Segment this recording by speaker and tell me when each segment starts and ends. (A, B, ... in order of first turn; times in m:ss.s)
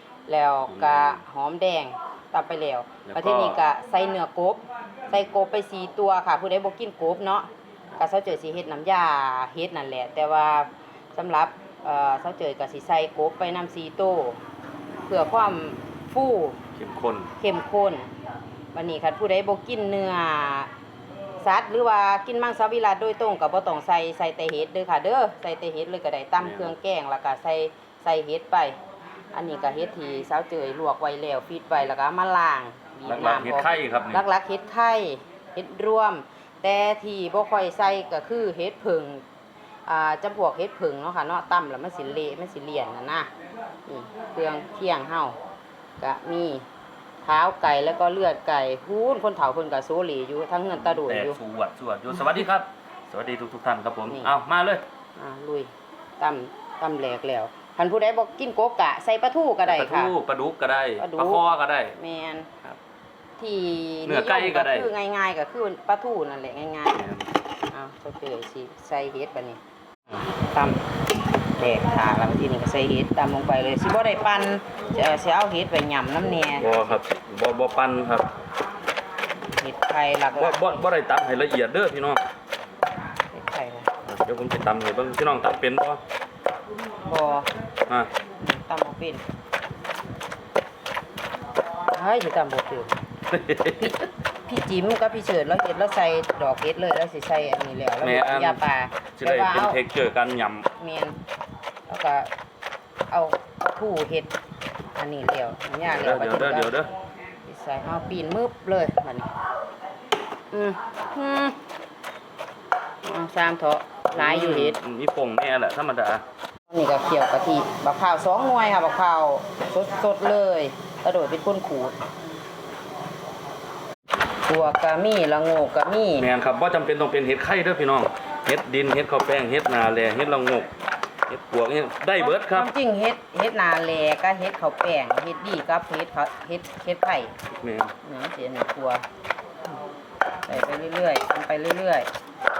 0:00.3-0:14.4 A
0:00.7-0:01.2 B
0:03.1-0:03.6 B
0:15.1-0:16.6 A
0:16.8-0:17.3 B
0:17.4-0:18.1 A
0:18.7-0:20.7 A
0:21.4-0:28.8 A
0:26.4-0:26.7 B
0:29.3-0:39.2 A
0:33.0-0:34.2 B
0:39.9-0:43.3 A
0:43.9-0:45.4 A
0:46.0-0:46.6 A
0:47.2-0:51.4 A
0:51.0-0:54.8 B
0:55.2-1:00.1 A
0:59.6-1:01.9 B
1:01.0-1:02.8 A
1:03.4-1:07.0 A
1:04.0-1:04.9 B
1:06.9-1:07.3 B
1:07.7-1:09.6 A
1:10.5-1:10.8 A
1:11.6-1:17.0 A
1:16.6-1:18.3 B
1:19.5-1:20.8 A
1:20.3-1:22.2 B
1:23.3-1:23.9 A
1:24.0-1:26.0 B
1:27.0-1:27.5 A
1:28.4-1:29.2 A
1:31.9-1:32.9 A
1:33.3-1:33.9 B
1:33.8-1:39.8 A
1:38.0-1:38.6 B
1:39.2-1:40.6 B
1:40.8-1:41.2 A
1:41.9-1:42.3 A
1:43.1-1:44.3 A
1:45.0-1:46.7 A
1:45.9-1:46.9 B
1:47.4-1:49.3 A
1:50.5-1:51.6 A
1:53.0-1:54.8 A
1:54.1-1:56.2 B
1:56.7-2:01.9 A
2:04.5-2:06.3 A
2:06.2-2:10.7 B
2:11.3-2:12.7 B
2:12.2-2:17.3 A
2:17.5-2:17.9 B
2:18.0-2:19.0 A
2:20.5-2:22.1 A